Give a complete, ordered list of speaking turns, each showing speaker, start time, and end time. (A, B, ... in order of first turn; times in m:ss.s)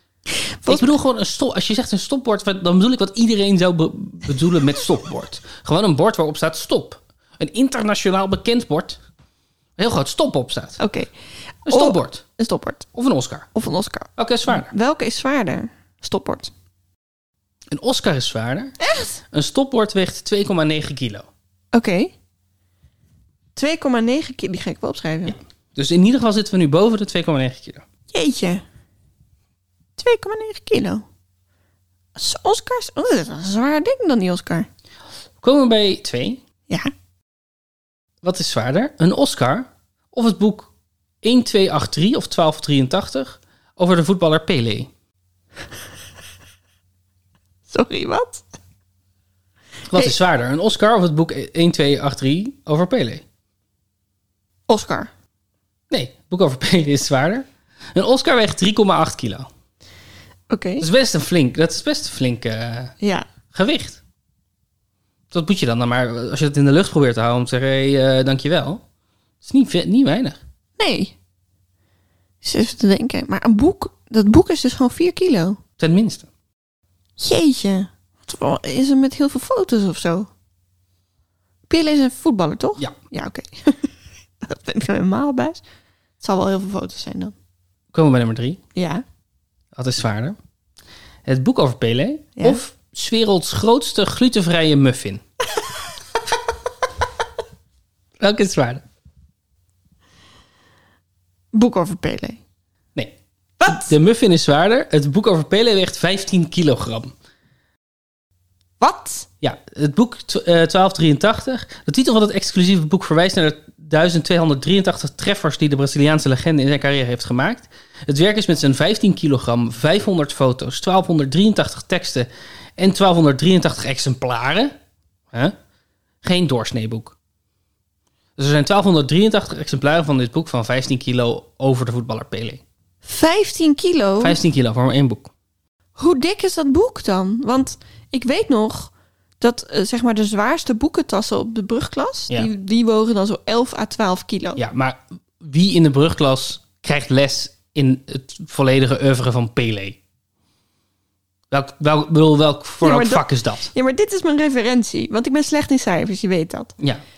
0:00.3-0:01.0 A
0:00.7-0:09.0 B
0:09.8-0:10.8 B
0:10.8-0:11.1 A
0:11.6-0:12.2 B
0:11.7-0:12.9 A
0:12.9-0:13.5 B
0:13.5-0:16.5 A
0:14.2-0:14.7 B
0:17.7-0:18.8 B
0:18.8-0:19.2 A
0:19.3-0:21.3 B
0:21.7-0:22.1 A
0:23.5-0:25.4 A
0:25.3-0:27.8 B
0:28.1-0:28.6 A
0:30.0-0:31.0 A
0:32.2-0:34.7 A
0:35.4-0:36.4 B
0:38.2-0:40.7 B
0:41.2-0:44.9 B
0:47.7-0:48.4 A
0:49.9-0:53.2 B
0:54.7-0:55.1 A
0:55.9-0:59.5 B
1:00.5-1:00.8 A
1:00.8-1:02.9 B
1:03.0-1:03.3 A
1:03.5-1:04.0 B
1:05.3-1:08.8 B
1:09.4-1:10.4 B
1:10.8-1:11.1 A
1:12.4-1:15.6 A
1:15.8-1:16.3 B
1:17.2-1:20.3 A
1:21.7-1:25.6 A
1:26.2-1:27.3 A
1:27.9-1:28.6 B
1:28.7-1:29.0 A
1:29.7-1:30.4 B
1:31.2-1:35.2 B
1:38.2-1:38.8 B
1:41.5-1:42.4 A
1:42.9-1:47.1 B
1:43.6-1:43.9 A
1:48.8-1:49.3 A
1:49.4-2:04.7 B
2:06.2-2:07.1 B
2:08.4-2:12.6 B
2:13.0-2:14.4 A
2:14.2-2:15.3 B
2:16.0-2:24.6 A
2:24.6-2:30.0 B
2:31.5-2:33.7 B
2:32.8-2:36.7 A